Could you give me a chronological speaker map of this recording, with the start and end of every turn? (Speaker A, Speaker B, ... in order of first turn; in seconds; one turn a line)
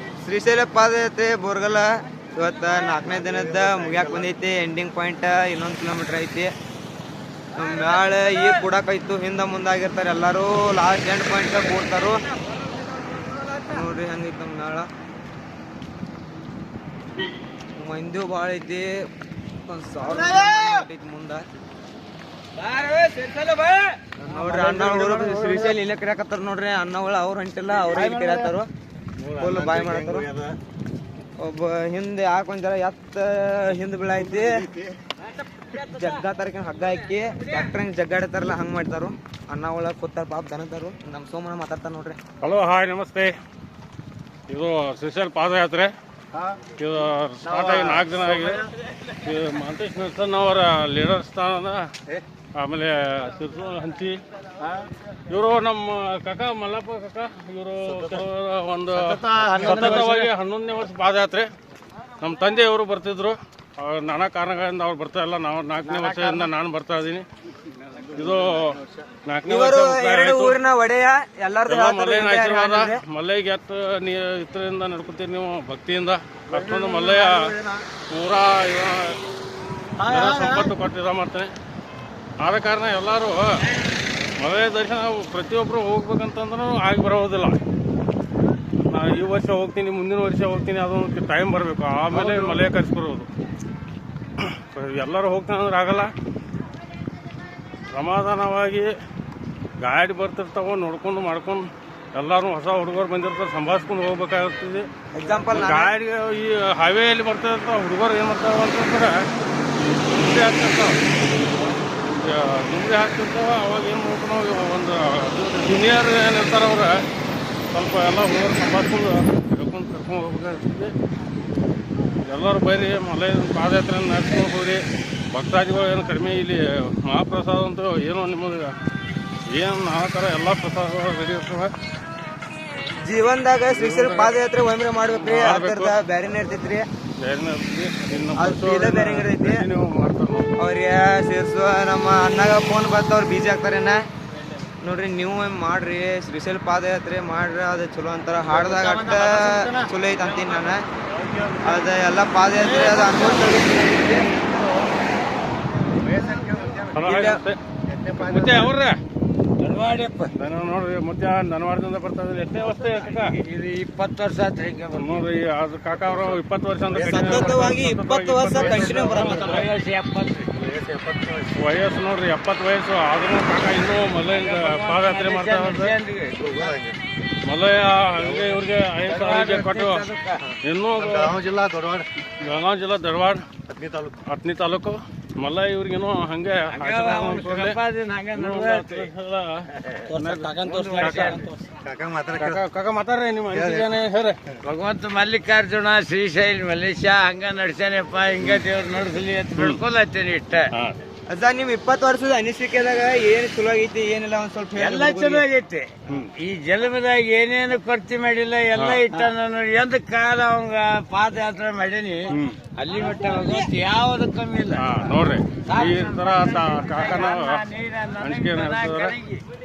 Speaker A: 0.2-6.5
Speaker A: 7.5-12.2
Speaker A: 13.6-14.9
Speaker A: 17.8-18.9
Speaker A: 19.7-21.4
Speaker B: 22.6-24.1
Speaker A: 24.2-28.7
Speaker C: 24.5-25.6
Speaker D: 29.2-30.6
Speaker A: 29.4-30.3
Speaker A: 31.4-34.7
Speaker A: 35.7-42.2
Speaker C: 42.4-43.3
Speaker C: 44.5-45.9
Speaker C: 46.8-51.9
Speaker C: 52.5-54.2
Speaker C: 55.3-61.5
Speaker D: 59.2-60.1
Speaker C: 62.2-67.2
Speaker C: 68.1-70.6
Speaker A: 69.5-73.0
Speaker C: 71.7-77.5
Speaker C: 78.1-79.2
Speaker C: 80.0-81.5
Speaker C: 82.4-83.7
Speaker C: 84.4-87.6
Speaker C: 88.9-93.3
Speaker C: 94.4-96.1
Speaker C: 97.9-98.9
Speaker C: 99.8-104.9
Speaker A: 105.1-105.9
Speaker C: 105.5-109.2
Speaker C: 110.1-111.0
Speaker C: 112.0-117.0
Speaker C: 117.7-120.9
Speaker C: 122.3-128.7
Speaker C: 129.5-131.7
Speaker A: 133.0-136.8
Speaker C: 133.7-134.4
Speaker C: 135.2-135.9
Speaker C: 137.2-140.5
Speaker A: 138.4-139.7
Speaker A: 140.6-144.0
Speaker A: 144.8-150.8
Speaker A: 151.6-154.3
Speaker D: 154.3-154.6
Speaker D: 156.0-156.9
Speaker C: 156.9-157.6
Speaker A: 157.0-157.4
Speaker D: 157.9-158.6
Speaker C: 158.2-159.0
Speaker B: 159.6-160.3
Speaker C: 160.3-163.4
Speaker B: 162.9-165.2
Speaker C: 164.9-169.7
Speaker D: 167.0-167.7
Speaker A: 167.0-169.6
Speaker B: 168.6-170.5
Speaker D: 170.6-171.5
Speaker C: 171.5-176.0
Speaker B: 174.3-176.7
Speaker D: 176.4-177.0
Speaker C: 177.4-180.1
Speaker B: 179.1-180.5
Speaker C: 180.6-181.4
Speaker D: 181.0-182.1
Speaker C: 182.4-183.4
Speaker D: 183.7-184.2
Speaker C: 184.2-187.8
Speaker B: 186.7-189.1
Speaker C: 188.3-191.4
Speaker B: 189.9-191.7
Speaker D: 191.8-192.6
Speaker C: 192.3-194.4
Speaker B: 194.6-200.7
Speaker C: 199.6-199.8
Speaker C: 200.7-201.0
Speaker A: 201.3-205.5
Speaker B: 204.8-215.0
Speaker C: 208.8-209.3
Speaker C: 212.3-212.6
Speaker C: 214.8-217.6
Speaker B: 215.7-219.4
Speaker C: 218.2-219.2